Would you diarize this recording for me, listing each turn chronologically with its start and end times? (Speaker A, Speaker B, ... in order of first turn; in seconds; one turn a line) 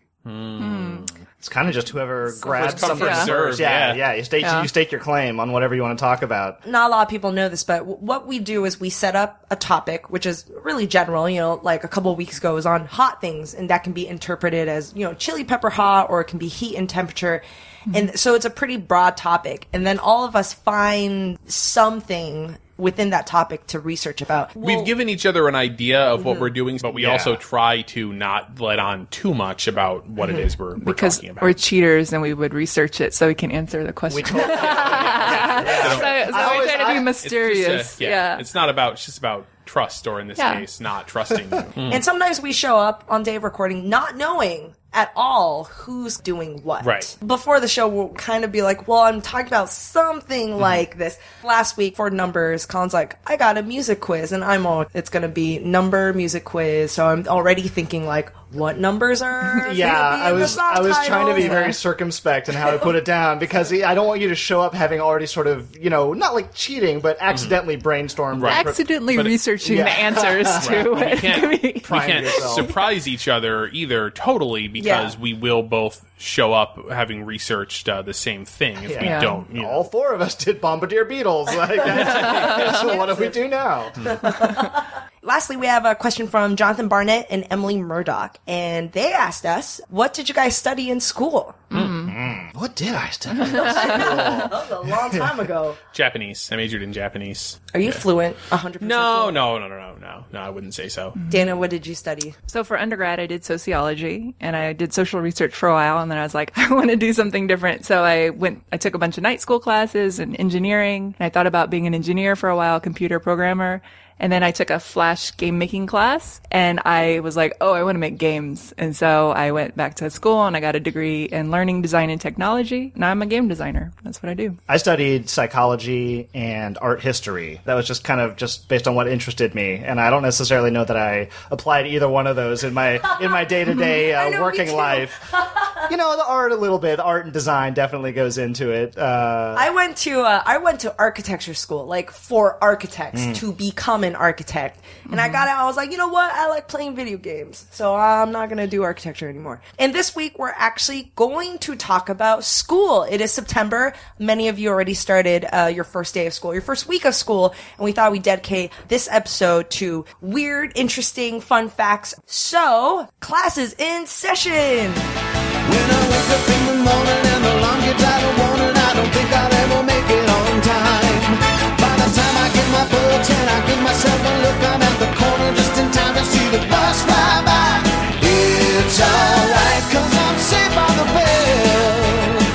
Speaker A: 0.2-1.2
Speaker B: 0.6-1.1
Speaker C: 1.4-6.6
Speaker A: 2.4-4.0
Speaker B: 2.4-3.3
Speaker B: 4.4-4.7
Speaker D: 6.6-24.9
Speaker A: 24.6-31.6
Speaker D: 26.2-26.5
Speaker C: 26.9-27.4
Speaker D: 30.2-30.5
Speaker B: 30.8-38.4
Speaker C: 34.1-37.1
Speaker A: 34.6-42.0
Speaker B: 40.4-40.6
Speaker D: 41.9-61.8
Speaker A: 46.8-47.1
Speaker C: 59.6-68.8
Speaker B: 61.4-61.8
Speaker A: 67.3-67.6
Speaker A: 68.3-69.4
Speaker B: 68.4-72.7
Speaker C: 69.6-71.2
Speaker A: 70.6-79.8
Speaker C: 71.8-72.7
Speaker D: 74.8-75.2
Speaker C: 78.8-84.0
Speaker B: 79.0-79.4
Speaker D: 81.8-83.4
Speaker A: 82.1-82.7
Speaker D: 84.0-91.6
Speaker B: 91.7-92.1
Speaker A: 91.7-92.0
Speaker C: 92.0-95.3
Speaker B: 93.3-94.4
Speaker D: 93.4-95.8
Speaker A: 95.9-98.0
Speaker D: 97.7-99.4
Speaker A: 98.8-101.2
Speaker D: 101.3-102.3
Speaker B: 102.5-124.6
Speaker C: 124.7-135.2
Speaker D: 133.4-135.9
Speaker C: 135.8-139.7
Speaker D: 139.5-165.0
Speaker C: 143.1-143.4
Speaker B: 145.1-145.4
Speaker E: 165.6-182.4